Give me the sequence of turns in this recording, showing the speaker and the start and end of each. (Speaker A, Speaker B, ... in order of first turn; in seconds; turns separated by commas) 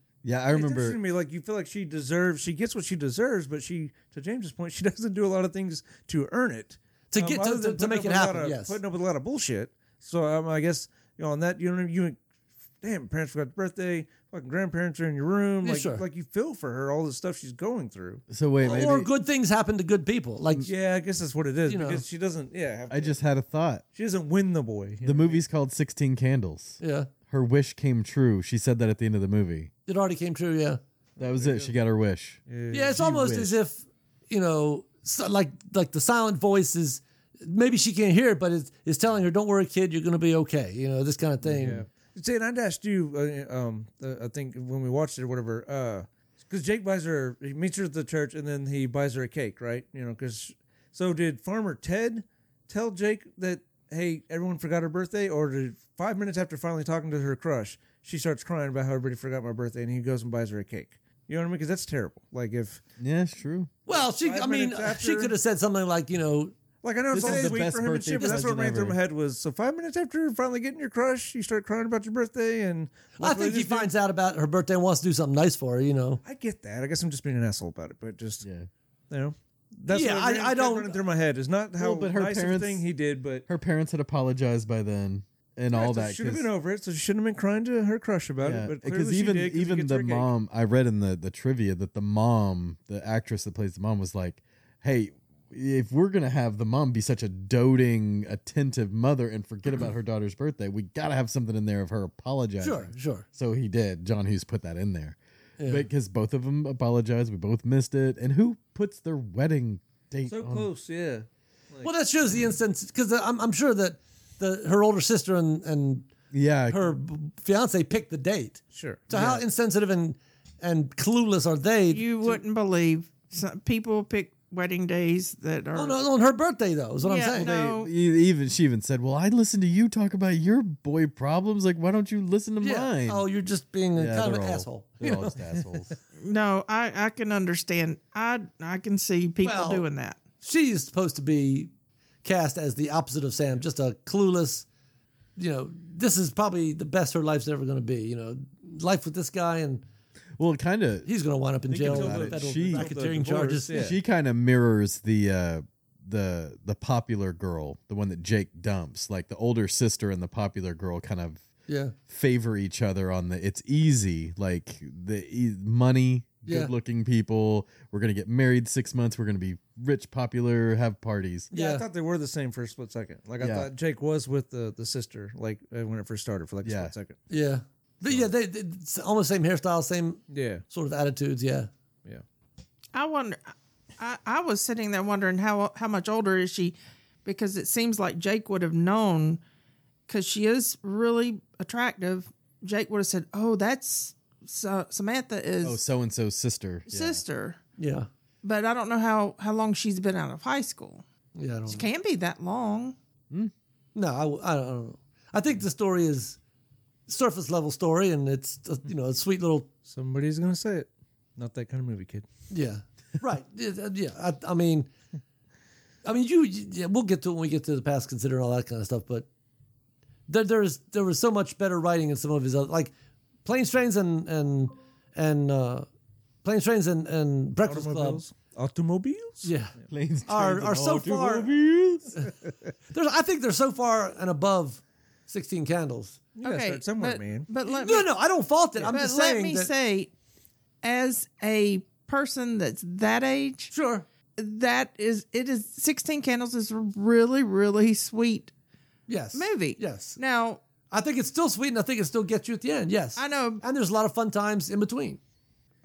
Speaker A: 0.2-1.0, Speaker B: 0.5-12.2, Speaker C: 7.1-8.8, Speaker B: 12.8-18.9, Speaker C: 15.6-16.0, Speaker A: 18.3-19.1, Speaker C: 18.6-20.7, Speaker B: 20.6-23.2, Speaker C: 21.7-22.0, Speaker A: 22.9-23.8, Speaker B: 23.9-25.4, Speaker A: 25.0-29.7, Speaker C: 26.8-27.1, Speaker C: 29.9-30.8, Speaker A: 31.2-32.4, Speaker B: 31.2-31.7, Speaker B: 32.5-33.0, Speaker C: 32.7-41.8, Speaker A: 32.9-33.6, Speaker B: 41.4-62.8, Speaker A: 63.0-63.7, Speaker C: 63.9-66.5, Speaker B: 64.1-65.3, Speaker B: 66.8-73.9, Speaker A: 67.1-69.0, Speaker C: 67.2-67.6, Speaker C: 73.2-76.2, Speaker B: 76.2-78.4, Speaker A: 78.4-78.7, Speaker B: 79.1-83.5, Speaker C: 79.9-81.0, Speaker A: 81.8-82.8, Speaker A: 83.5-86.5, Speaker B: 85.7-90.3, Speaker A: 88.4-110.7, Speaker C: 102.6-103.2, Speaker C: 105.6-105.8, Speaker B: 110.3-111.9, Speaker C: 111.8-116.1, Speaker A: 116.3-116.9, Speaker C: 116.7-122.4, Speaker B: 118.7-119.3, Speaker A: 119.1-119.4, Speaker D: 121.9-126.0, Speaker C: 125.7-127.5, Speaker D: 127.0-127.9, Speaker A: 127.3-133.2, Speaker C: 132.6-135.3, Speaker A: 133.9-135.9, Speaker D: 136.2-140.2, Speaker C: 139.4-139.8, Speaker C: 140.4-141.7, Speaker C: 142.2-144.7, Speaker C: 145.4-149.8, Speaker A: 150.4-151.1, Speaker C: 151.1-153.9, Speaker B: 151.7-153.9, Speaker A: 151.8-152.9, Speaker A: 153.7-161.4, Speaker C: 161.7-161.9, Speaker A: 162.1-171.5, Speaker C: 166.4-166.7, Speaker C: 171.5-171.8, Speaker B: 171.5-177.2, Speaker A: 173.4-173.7, Speaker A: 176.6-176.9, Speaker C: 177.3-181.7, Speaker B: 180.3-180.6, Speaker D: 182.9-189.4, Speaker D: 190.1-195.8, Speaker A: 195.6-197.2, Speaker D: 196.9-197.6, Speaker C: 197.8-198.1, Speaker D: 198.4-201.0, Speaker C: 201.3-201.8, Speaker D: 201.7-202.9, Speaker C: 203.9-206.4, Speaker C: 207.1-209.7, Speaker B: 209.8-212.2, Speaker C: 212.5-214.9, Speaker C: 216.0-219.3, Speaker C: 220.3-222.9, Speaker C: 223.4-225.9, Speaker C: 226.4-228.2, Speaker B: 227.6-229.5, Speaker C: 229.4-229.7, Speaker A: 229.9-232.3, Speaker C: 230.3-231.5, Speaker C: 232.9-236.2, Speaker B: 236.3-237.5, Speaker D: 236.4-238.1, Speaker C: 237.7-239.7, Speaker D: 238.9-240.1, Speaker D: 240.8-243.7, Speaker C: 243.7-244.0, Speaker D: 244.4-248.5, Speaker C: 249.1-250.2, Speaker D: 249.3-250.6, Speaker C: 250.9-255.2, Speaker D: 253.2-253.6